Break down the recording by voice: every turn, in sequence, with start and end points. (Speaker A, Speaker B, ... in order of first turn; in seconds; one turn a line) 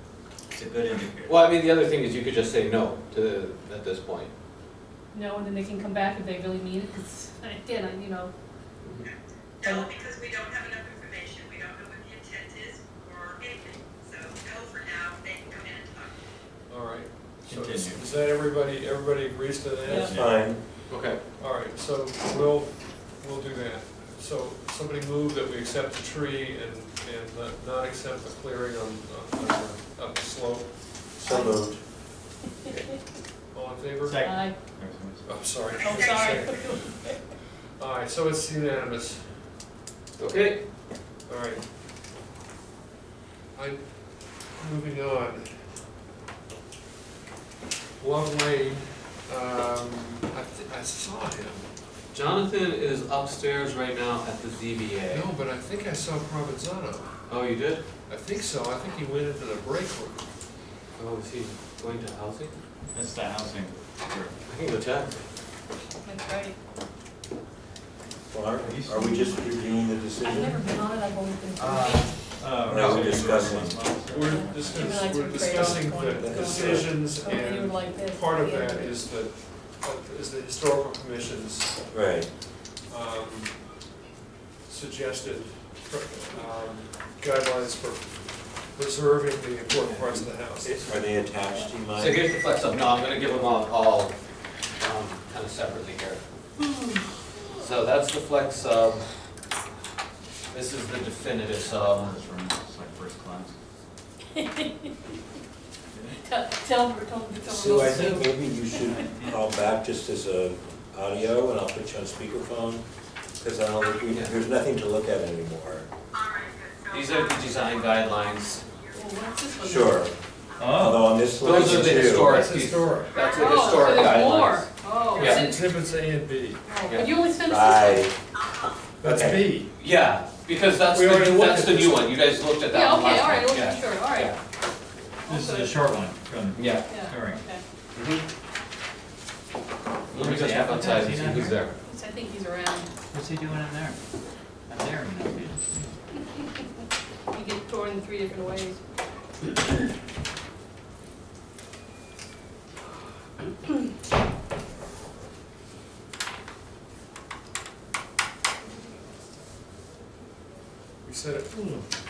Speaker A: 0.5-1.4
Speaker B: 1.2-4.3
Speaker C: 5.1-8.3
Speaker D: 9.6-16.1
Speaker E: 16.7-20.5
Speaker A: 17.5-18.0
Speaker A: 19.9-20.4
Speaker F: 20.1-20.6
Speaker B: 20.9-21.2
Speaker E: 21.4-30.8
Speaker F: 31.2-31.8
Speaker C: 31.2-31.6
Speaker E: 33.5-34.6
Speaker A: 34.0-35.4
Speaker C: 34.2-34.6
Speaker E: 35.2-37.0
Speaker C: 35.8-37.2
Speaker D: 35.8-36.5
Speaker E: 37.8-39.4
Speaker B: 40.2-40.6
Speaker E: 41.3-41.6
Speaker E: 43.5-43.8
Speaker E: 44.5-45.6
Speaker E: 48.0-51.6
Speaker B: 52.1-55.3
Speaker E: 55.1-57.2
Speaker B: 57.3-57.8
Speaker E: 58.1-60.2
Speaker B: 61.0-62.5
Speaker A: 62.9-64.3
Speaker B: 64.5-65.2
Speaker C: 66.0-66.5
Speaker F: 68.3-70.6
Speaker A: 68.6-69.4
Speaker C: 69.0-69.3
Speaker C: 70.2-72.4
Speaker A: 71.5-75.3
Speaker F: 72.6-73.8
Speaker E: 72.7-81.8
Speaker C: 74.2-79.0
Speaker F: 75.5-77.0
Speaker F: 81.9-82.3
Speaker E: 82.9-83.6
Speaker E: 84.7-88.1
Speaker E: 88.7-90.9
Speaker F: 90.6-92.2
Speaker B: 92.0-94.1
Speaker B: 94.8-96.2
Speaker C: 96.6-97.7
Speaker B: 97.5-99.1
Speaker B: 100.5-102.2
Speaker A: 101.8-103.5
Speaker C: 104.3-104.9
Speaker A: 105.9-106.2
Speaker C: 106.2-109.0
Speaker F: 107.4-112.8
Speaker A: 109.1-109.4
Speaker F: 113.4-115.9
Speaker D: 116.1-119.5
Speaker B: 116.9-118.7
Speaker C: 118.9-120.1
Speaker F: 119.6-120.1
Speaker A: 120.6-121.1
Speaker F: 120.8-122.4
Speaker B: 121.4-125.5
Speaker E: 121.6-123.2
Speaker D: 123.1-124.2
Speaker C: 123.3-125.6
Speaker E: 125.1-126.6
Speaker C: 126.6-128.1
Speaker B: 126.8-127.1
Speaker F: 127.4-128.2
Speaker E: 129.0-129.7
Speaker F: 129.0-129.5
Speaker B: 129.8-134.4
Speaker E: 130.9-132.1
Speaker C: 132.7-134.3
Speaker C: 135.2-135.8
Speaker A: 135.2-137.4
Speaker B: 136.5-136.9
Speaker C: 136.8-137.6
Speaker B: 137.9-138.2
Speaker B: 140.1-141.8
Speaker A: 140.1-141.7
Speaker C: 141.8-142.9
Speaker A: 143.1-144.0
Speaker A: 144.7-145.9
Speaker C: 147.3-148.8
Speaker E: 161.0-161.8